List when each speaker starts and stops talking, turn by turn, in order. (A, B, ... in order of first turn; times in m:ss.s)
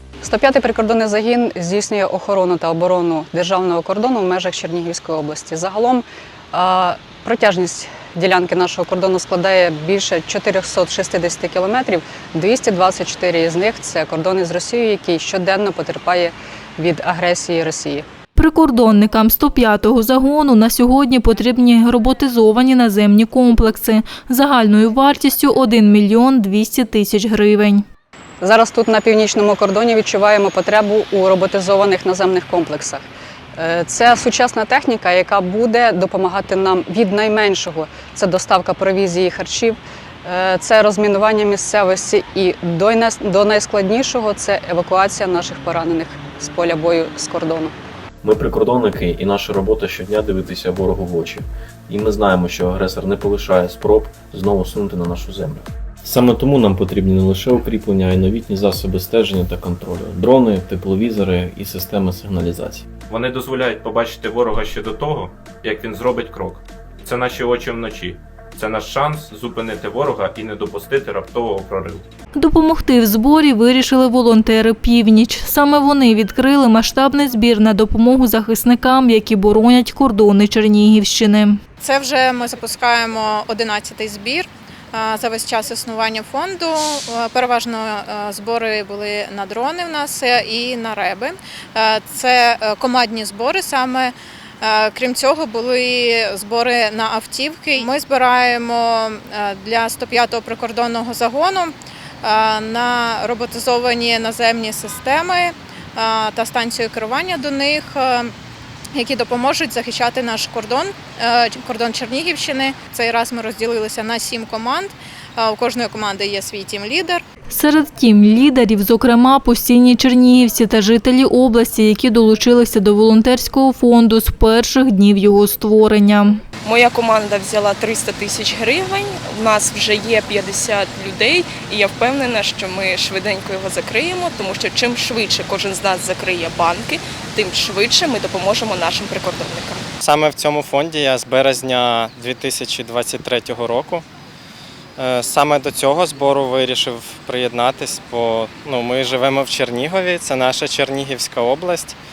0:00.2-0:18.0 A
0:18.3-0:27.8 B
0:28.4-0:47.7 A
0:48.2-1:02.9 C
1:03.1-1:12.0 D
1:12.3-1:21.6 B
1:21.8-1:48.3 E
1:48.9-1:57.2 E
1:57.5-2:06.4 B
2:06.6-2:19.8 F
2:20.0-2:24.0 G
2:25.0-2:32.0 G